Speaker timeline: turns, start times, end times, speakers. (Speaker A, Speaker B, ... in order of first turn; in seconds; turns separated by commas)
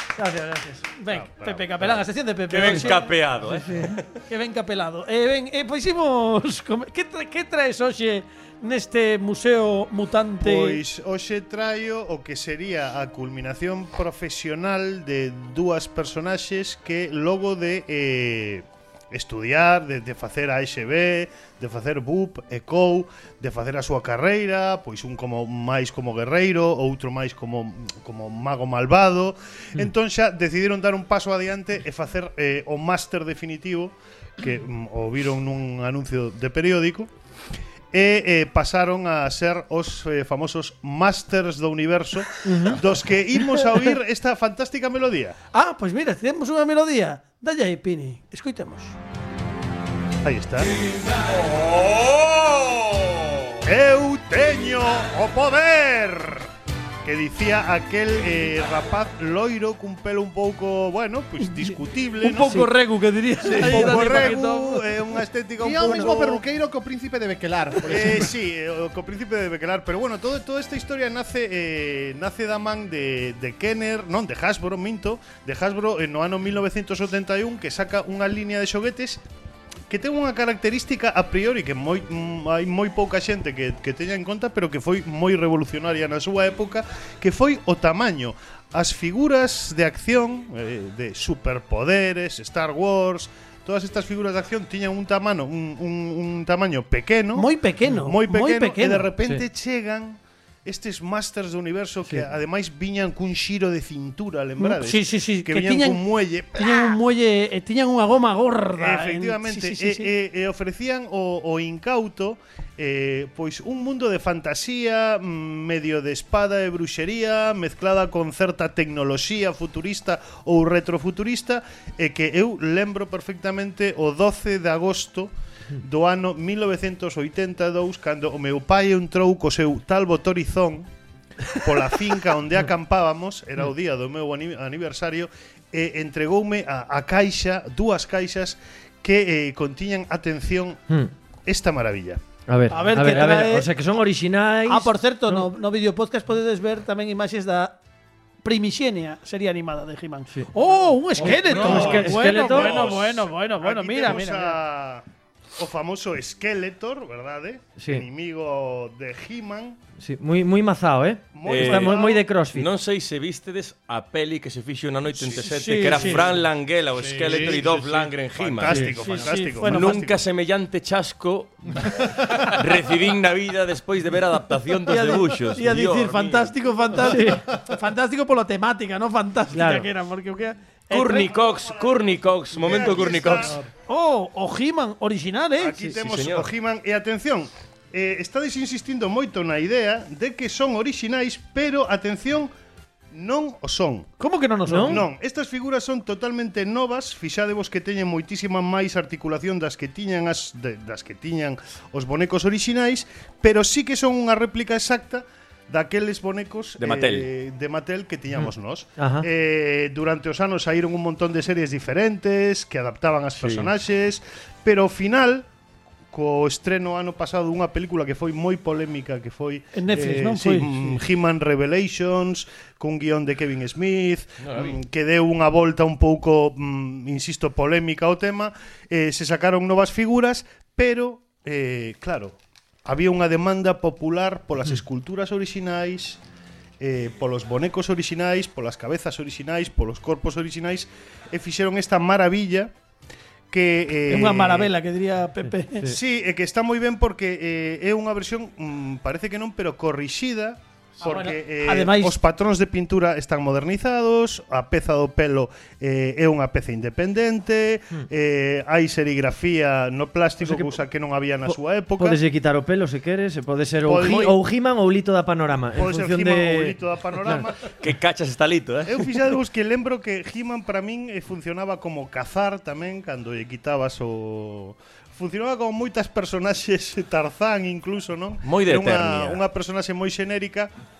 Speaker A: 0.1-0.8, Speaker B: 1.0-3.1, Speaker C: 1.1-2.0, Speaker D: 2.5-4.1, Speaker A: 3.4-4.0, Speaker B: 4.2-10.8, Speaker C: 10.4-37.1, Speaker C: 37.9-45.4, Speaker A: 42.4-42.8, Speaker B: 45.5-48.9, Speaker C: 50.2-50.7, Speaker D: 51.3-53.5, Speaker C: 53.6-56.5, Speaker C: 57.0-62.7, Speaker B: 62.2-64.8, Speaker C: 63.5-66.4, Speaker E: 63.5-64.3, Speaker E: 65.6-68.3, Speaker C: 67.8-79.2, Speaker C: 79.9-106.9, Speaker B: 97.3-99.1, Speaker B: 104.6-106.0, Speaker B: 106.5-110.1, Speaker C: 108.8-130.9, Speaker C: 131.5-140.8, Speaker C: 141.4-142.2, Speaker A: 142.5-145.5, Speaker B: 142.7-143.7, Speaker B: 144.7-147.8, Speaker B: 148.4-154.6, Speaker A: 151.2-152.9, Speaker C: 151.3-155.0, Speaker D: 151.7-151.9, Speaker D: 152.6-152.9, Speaker C: 155.6-159.8, Speaker A: 157.8-158.1, Speaker A: 160.0-162.7, Speaker C: 161.3-162.2, Speaker D: 161.4-162.0, Speaker D: 162.5-168.9, Speaker C: 165.2-166.3, Speaker B: 165.4-166.3, Speaker E: 167.0-167.7, Speaker C: 167.2-170.2, Speaker B: 168.9-170.1, Speaker D: 169.6-176.5, Speaker B: 174.9-181.4, Speaker A: 177.0-177.4, Speaker A: 179.5-179.9, Speaker D: 180.9-183.5, Speaker C: 182.5-183.6, Speaker E: 183.3-183.6, Speaker B: 183.9-185.8, Speaker C: 185.6-192.5, Speaker D: 185.9-186.5, Speaker C: 193.1-194.1, Speaker B: 194.2-195.0, Speaker A: 194.7-195.0, Speaker C: 194.8-215.4, Speaker D: 206.8-207.3, Speaker A: 209.0-209.3, Speaker D: 213.4-213.7, Speaker C: 216.1-236.2, Speaker B: 219.7-220.9, Speaker D: 224.4-224.8, Speaker C: 236.8-242.7, Speaker C: 243.5-244.7, Speaker B: 244.1-245.9, Speaker C: 245.8-262.2, Speaker B: 251.0-252.2, Speaker A: 260.4-260.8, Speaker A: 261.4-267.4, Speaker C: 263.8-264.4, Speaker C: 265.7-267.7, Speaker D: 267.8-269.1, Speaker C: 268.9-280.7, Speaker D: 278.4-279.4